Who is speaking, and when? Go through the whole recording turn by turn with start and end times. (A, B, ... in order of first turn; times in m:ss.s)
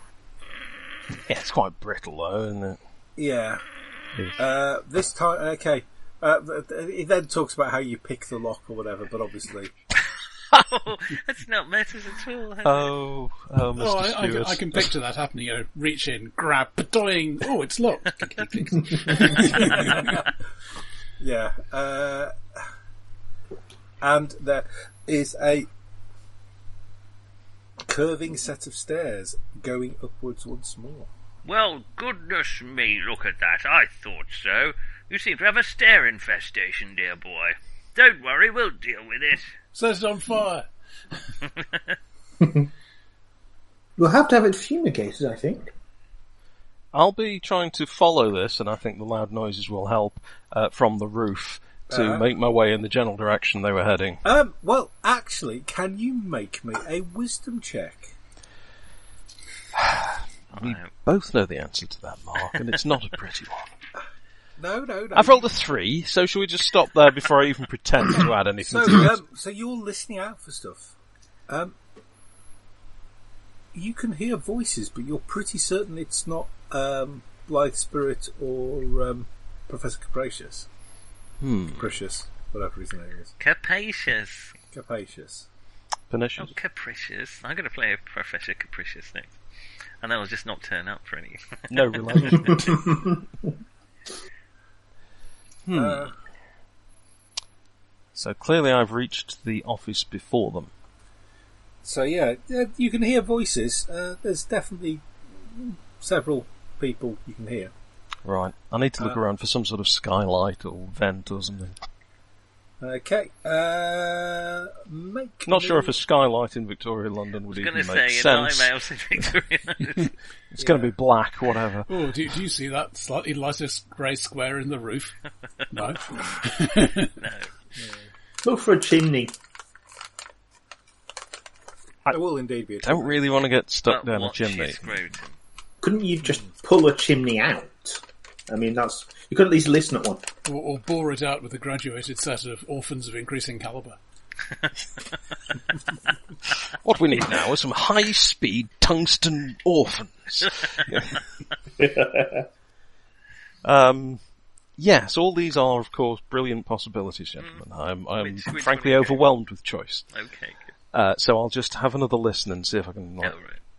0:01.3-0:02.8 A
0:03.2-0:03.6 B
0:04.4-0:09.7 B
0:10.5-0:12.9 C
0:12.6-0:14.9 A
0:13.8-0:20.2 D
0:19.5-0:19.9 C
0:19.6-0:20.2 B
0:21.2-0:22.3 B
0:24.0-0:25.7 B
0:27.9-0:31.1 B
0:31.4-0:39.5 C
0:39.7-0:40.7 D
0:42.4-0:42.7 E
0:44.0-0:45.7 E
0:46.9-0:54.2 A
0:51.9-0:52.3 B
0:54.2-0:58.2 B
0:59.8-1:03.7 A
1:00.5-1:00.9 C
1:04.6-1:05.5 B
1:05.1-1:09.1 A
1:08.6-1:10.9 B
1:11.5-1:11.8 B
1:13.7-1:20.7 B
1:21.4-1:21.9 A
1:21.7-1:23.3 B
1:23.4-1:24.6 C
1:24.7-1:25.5 B
1:26.1-1:26.6 A
1:26.4-1:29.3 C
1:30.0-1:32.7 C
1:31.7-1:32.8 A
1:32.3-1:33.5 E
1:35.7-1:36.1 A
1:35.7-1:36.2 B
1:38.2-1:40.7 A
1:41.8-1:47.7 B
1:48.2-1:51.8 A
1:52.8-1:56.0 B
1:55.5-1:58.7 A
1:57.5-2:00.1 C
2:00.5-2:01.9 A
2:00.6-2:00.9 B
2:01.9-2:05.1 D
2:05.7-2:07.1 D
2:07.2-2:07.5 C
2:07.8-2:08.1 B
2:08.4-2:09.4 E
2:12.1-2:13.2 B
2:12.8-2:15.0 A
2:13.9-2:15.4 C
2:15.8-2:20.3 E
2:20.4-2:24.0 D
2:26.8-2:31.2 A
2:31.8-2:32.4 E
2:33.6-2:34.2 A
2:34.8-2:40.1 A
2:38.2-2:39.3 C
2:40.1-2:40.7 C
2:40.9-2:43.4 A
2:43.2-2:43.6 C